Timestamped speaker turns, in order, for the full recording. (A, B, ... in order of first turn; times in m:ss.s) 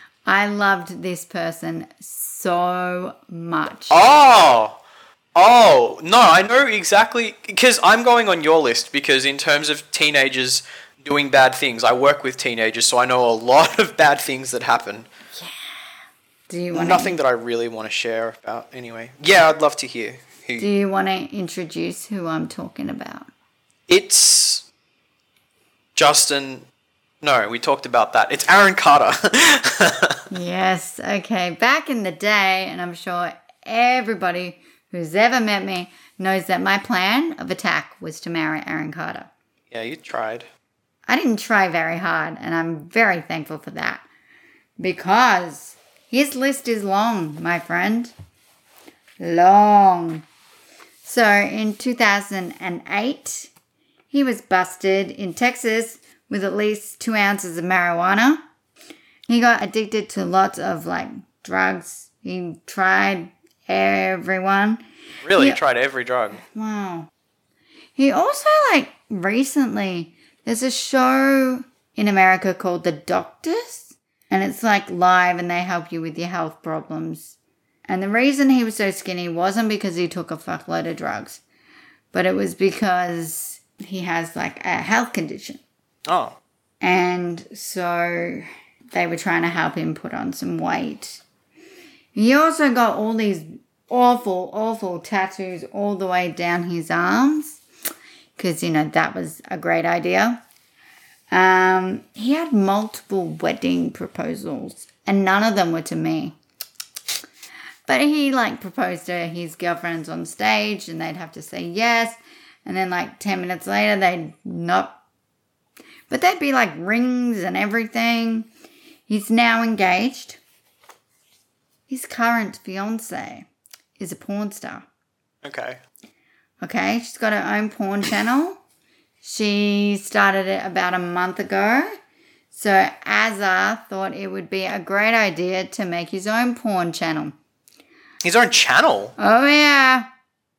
0:00.2-0:04.0 A
0:03.9-0:04.8 B
0:05.3-0:15.1 B
0:16.5-0:17.2 A
0:16.7-0:20.7 B
0:20.6-0:23.3 A
0:23.9-0:24.6 B
0:25.9-0:26.6 B
0:27.2-0:30.2 B
0:30.3-0:39.3 A
0:39.7-0:40.5 B
0:41.1-0:44.0 A
0:44.8-0:48.1 A
0:49.2-0:50.2 A
0:51.0-0:53.5 A
0:54.1-0:58.4 A
0:59.3-1:04.8 A
1:05.2-1:06.4 B
1:05.3-1:05.6 A
1:06.3-1:07.1 A
1:08.0-1:17.4 A
1:17.9-1:21.4 A
1:22.1-1:25.6 A
1:26.0-1:26.4 B
1:26.8-1:31.2 A
1:32.1-1:37.6 A
1:38.4-1:40.4 A
1:41.3-1:46.4 A
1:47.9-1:55.0 A
1:56.1-1:58.5 A
1:59.1-2:00.4 A
2:01.9-2:03.5 A
2:04.0-2:04.8 A
2:05.4-2:05.8 B
2:06.6-2:08.6 A
2:09.2-2:11.9 A
2:12.5-2:17.3 A
2:18.2-2:19.1 B
2:19.2-2:20.1 A